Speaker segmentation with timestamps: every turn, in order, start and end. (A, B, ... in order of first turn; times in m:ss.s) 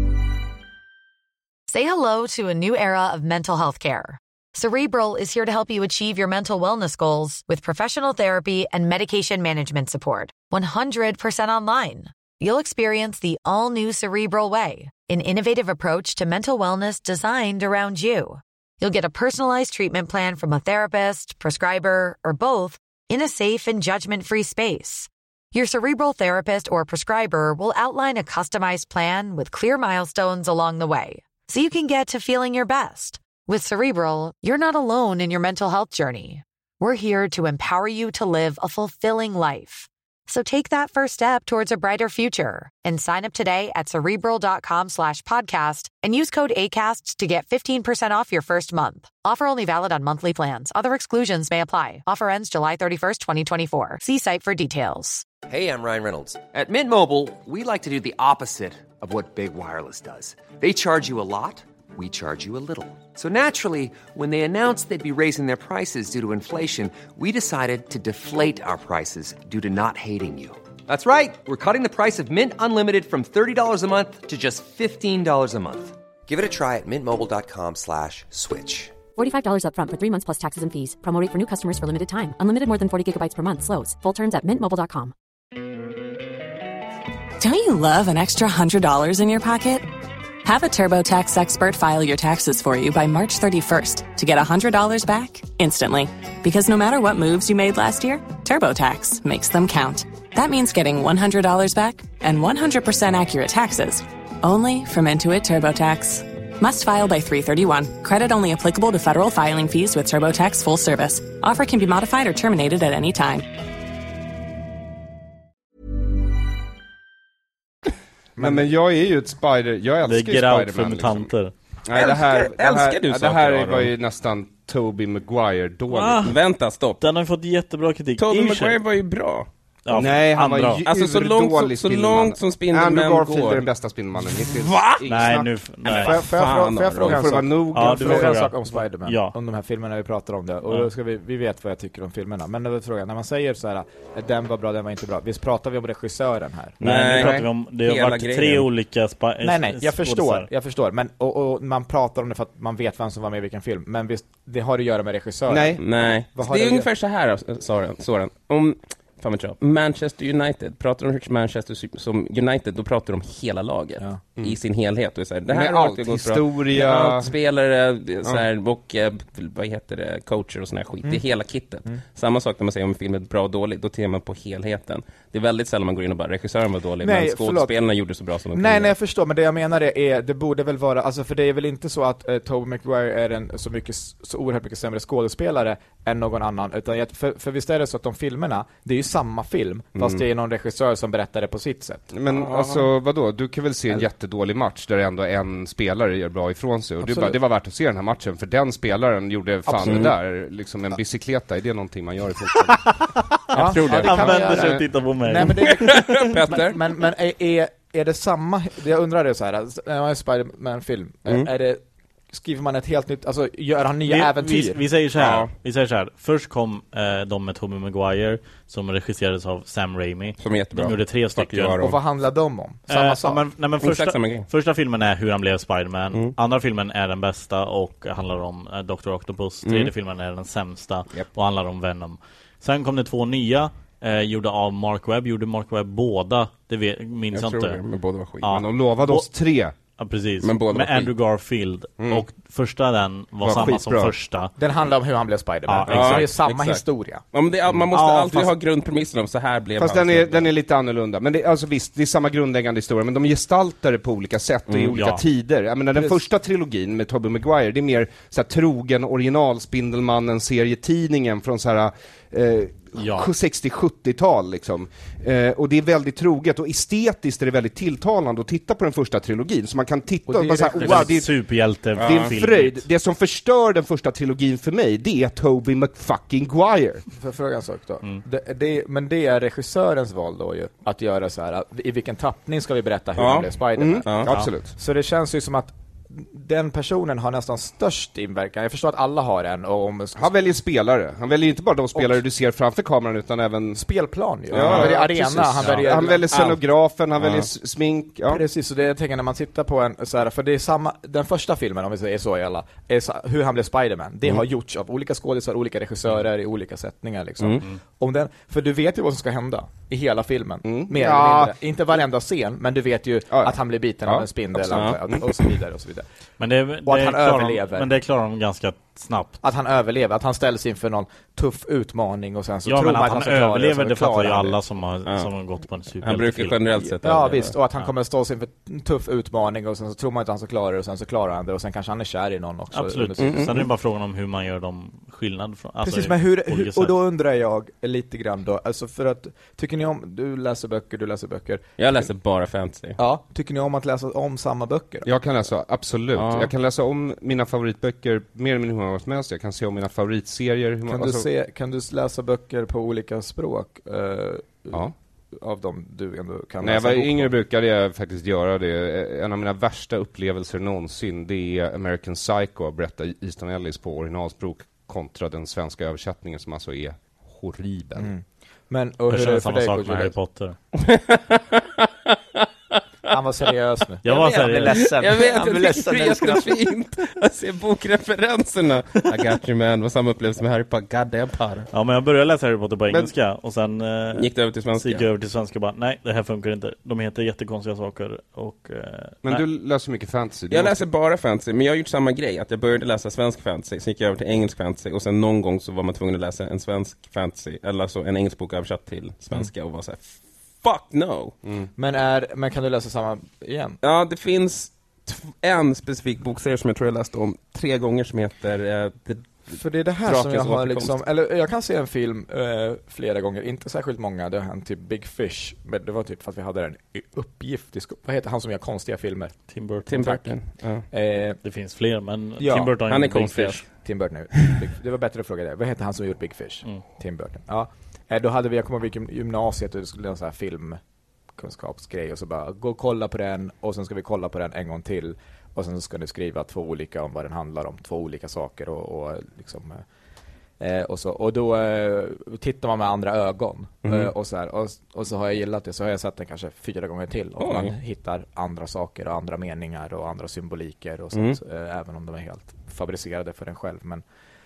0:01.7-0:55.2 A
0:55.5-1:19.0 B
1:19.1-1:25.1 C
1:27.4-1:29.9 D
1:30.4-1:53.5 D
1:58.4-1:58.7 E
1:58.4-2:01.3 F
2:00.0-2:01.5 G
2:01.8-2:06.3 F
2:01.9-2:03.9 H
2:05.9-2:06.4 G
2:06.2-2:07.0 H
2:07.0-2:08.8 G
2:08.2-2:09.5 H
2:09.8-2:10.8 G
2:09.9-2:16.1 F
2:10.8-2:13.6 H
2:14.3-2:15.0 H
2:15.0-2:16.2 G
2:15.9-2:17.2 H
2:15.9-2:26.8 E
2:17.0-2:18.3 F
2:17.7-2:19.3 G
2:26.8-2:28.7 H
2:26.8-2:30.5 G
2:27.2-2:27.4 F
2:29.4-2:36.9 E
2:35.5-2:35.8 F
2:35.8-2:58.9 H
2:45.5-2:47.3 F
2:57.0-2:57.7 E
2:58.5-3:12.1 E
3:12.1-3:22.9 F
3:12.3-3:12.9 H
3:17.0-3:17.4 E
3:19.6-3:20.1 E
3:19.8-3:20.1 H
3:23.5-3:34.8 E
3:23.5-3:24.8 F
3:23.5-3:25.8 G
3:25.6-3:26.9 H
3:34.1-3:41.8 G
3:35.1-3:35.5 H
3:40.4-3:42.0 H
3:41.8-3:43.4 E
3:42.9-3:57.8 G
3:43.8-3:44.5 H
3:49.6-3:49.9 H
3:57.3-3:58.6 H
3:58.4-3:59.3 G
3:58.5-3:59.8 F
4:00.0-4:04.5 G
4:00.4-4:01.1 H
4:02.0-4:02.2 F
4:03.4-4:04.1 F
4:04.6-4:07.2 E
4:05.7-4:06.3 G
4:05.9-4:10.5 H
4:07.9-4:08.5 G
4:09.8-4:31.4 F
4:14.7-4:14.9 H
4:14.9-4:15.2 G
4:23.0-4:23.3 G
4:30.3-4:31.2 E
4:30.8-4:32.8 G
4:32.0-4:32.3 H
4:32.0-4:37.0 F
4:37.1-4:50.3 E
4:43.2-4:43.5 H
4:43.8-4:44.7 F
4:44.0-4:44.3 H
4:50.2-4:53.8 F
4:51.9-4:52.2 E
4:53.7-4:56.4 E
4:54.5-4:58.4 F
4:54.5-4:55.0 H
4:55.6-4:56.6 H
4:57.2-4:57.5 H
4:58.3-5:16.0 E
5:10.6-5:11.5 F
5:13.3-5:14.9 F
5:14.7-5:15.0 H
5:16.4-5:19.4 G
5:16.8-5:17.9 E
5:19.4-5:24.6 E
5:22.6-5:26.6 G
5:25.0-5:25.3 H
5:26.0-5:27.5 H
5:27.0-5:33.6 E
5:32.7-5:36.9 G
5:33.2-5:33.6 H
5:35.8-5:42.1 E
5:41.8-5:43.0 H
5:43.0-5:45.1 E
5:45.0-5:51.2 F
5:46.1-5:46.5 H
5:50.9-5:57.3 E
5:56.6-6:08.1 F
6:08.0-6:10.1 E
6:09.1-6:10.6 G
6:10.7-6:12.8 H
6:13.1-6:16.5 E
6:14.0-6:15.0 G
6:14.1-6:21.7 H
6:21.7-6:29.4 G
6:24.1-6:25.1 H
6:29.2-6:30.8 F
6:30.5-6:41.4 H
6:41.8-6:43.8 E
6:43.8-6:51.0 H
6:49.5-6:59.4 E
6:59.5-7:00.0 G
6:59.9-7:00.8 H
6:59.9-7:00.2 E
7:00.9-7:01.4 E
7:01.4-7:03.6 G
7:02.4-7:02.7 E
7:02.9-7:03.6 H
7:03.8-7:10.8 E
7:11.3-7:19.8 E
7:20.6-7:34.0 E
7:23.8-7:24.1 H
7:27.4-7:27.7 H
7:31.1-7:31.4 H